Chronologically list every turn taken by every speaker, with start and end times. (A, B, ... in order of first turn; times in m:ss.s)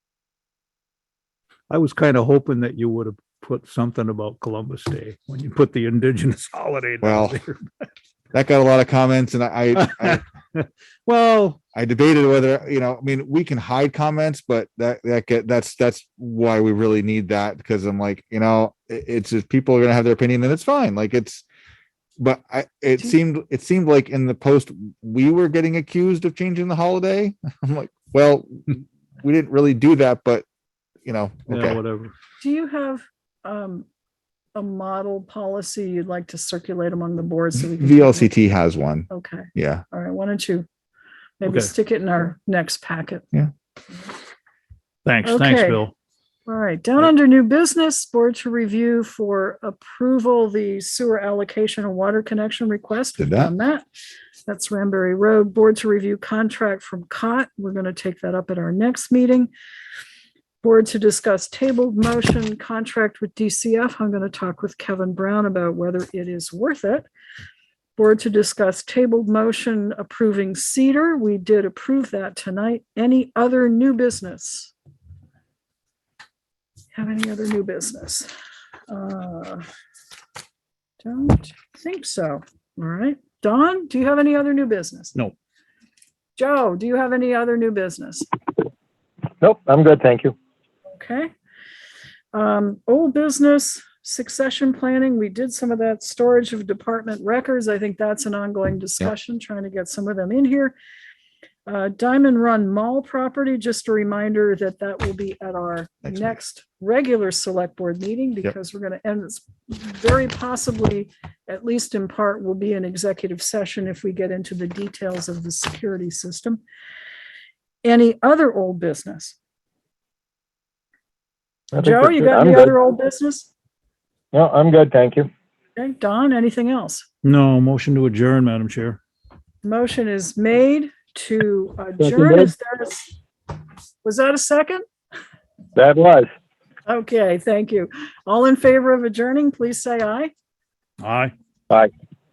0:01.7-0:07.9 A
0:07.0-0:07.4 B
0:08.3-0:10.2 B
0:09.8-0:11.6 A
0:11.7-0:21.4 B
0:22.2-0:30.4 B
0:31.0-0:31.8 B
0:31.5-0:32.1 A
0:32.4-0:33.9 C
0:34.6-0:38.3 C
0:37.6-0:39.8 B
0:39.1-0:40.7 C
0:41.4-0:43.2 C
0:41.4-0:41.7 A
0:45.0-0:45.9 A
0:45.2-0:45.8 C
0:46.5-0:53.9 C
0:53.2-0:53.5 B
0:54.5-0:59.5 C
1:00.6-1:07.1 C
1:08.0-1:14.7 C
1:16.9-1:18.3 C
1:18.9-1:19.7 C
1:21.0-1:25.2 C
1:26.4-1:28.3 C
1:29.4-1:30.4 D
1:30.9-1:31.3 C
1:32.3-1:40.8 C
1:41.7-1:56.6 C
1:57.8-1:59.4 C
2:01.7-2:02.7 D
2:01.7-2:03.5 C
2:04.3-2:05.3 D
2:05.8-2:07.1 C
2:07.2-2:09.0 A
2:09.6-2:13.1 C
2:12.0-2:12.5 D
2:14.0-2:14.8 C
2:15.8-2:16.3 D
2:16.9-2:20.3 C
2:21.0-2:21.3 A